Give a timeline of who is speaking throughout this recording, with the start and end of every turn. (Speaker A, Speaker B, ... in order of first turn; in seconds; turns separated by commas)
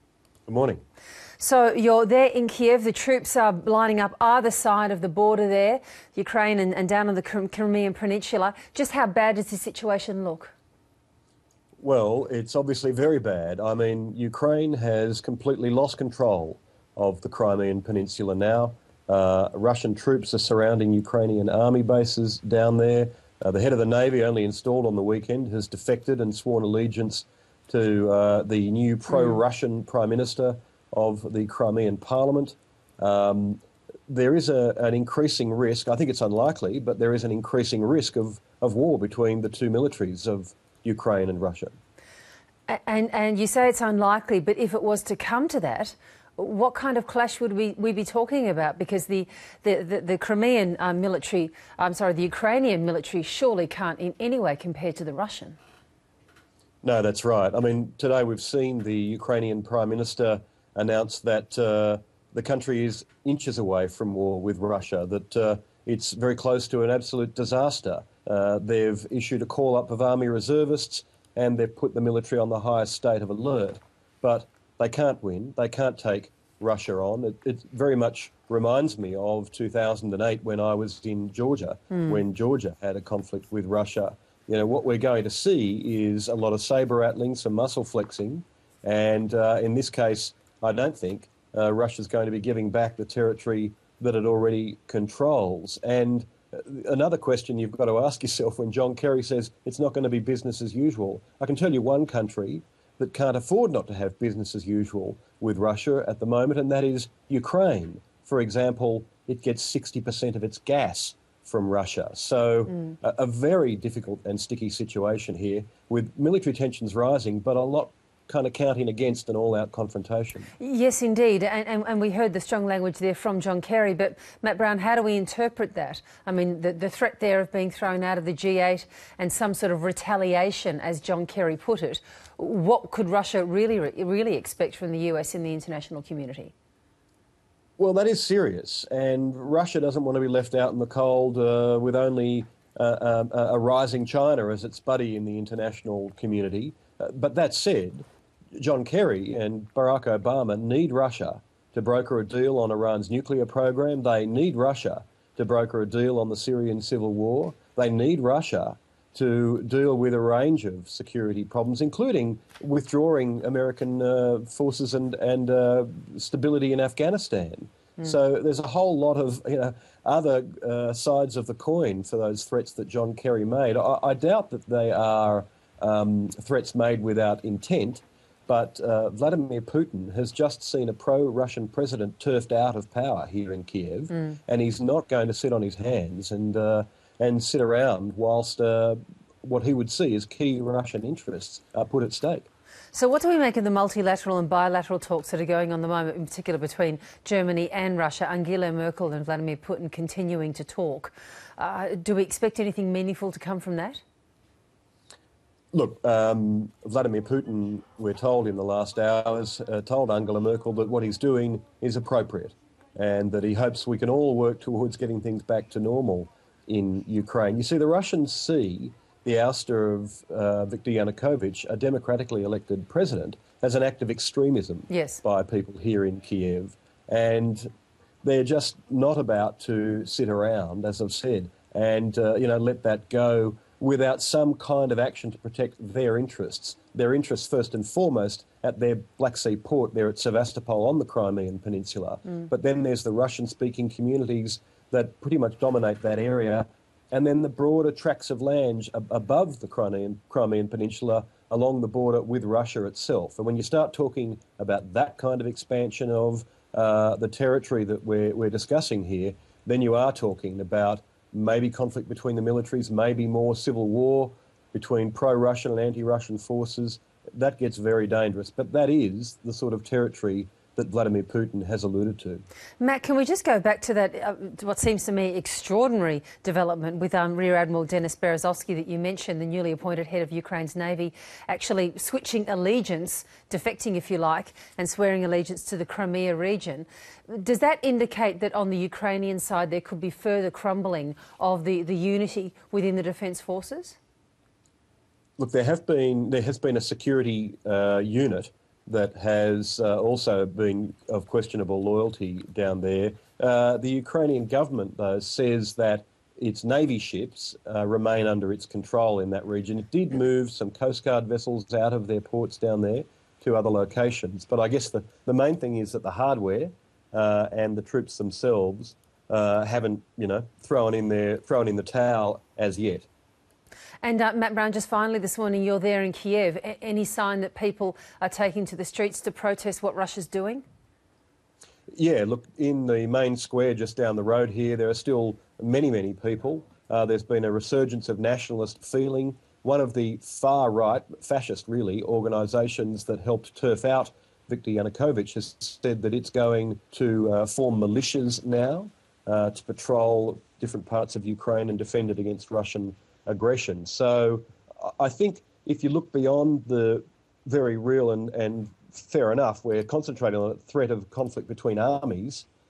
Speaker A: 0.5-0.8, Speaker B: 1.4-10.5, Speaker A: 11.8-41.8, Speaker B: 42.7-55.6, Speaker A: 56.8-120.5, Speaker B: 120.6-136.5, Speaker A: 137.8-192.5, Speaker B: 192.9-204.0, Speaker A: 205.7-227.7, Speaker B: 224.9-225.2, Speaker A: 228.2-272.4, Speaker B: 272.8-294.0, Speaker A: 295.4-323.1, Speaker B: 324.0-330.6, Speaker A: 331.9-362.4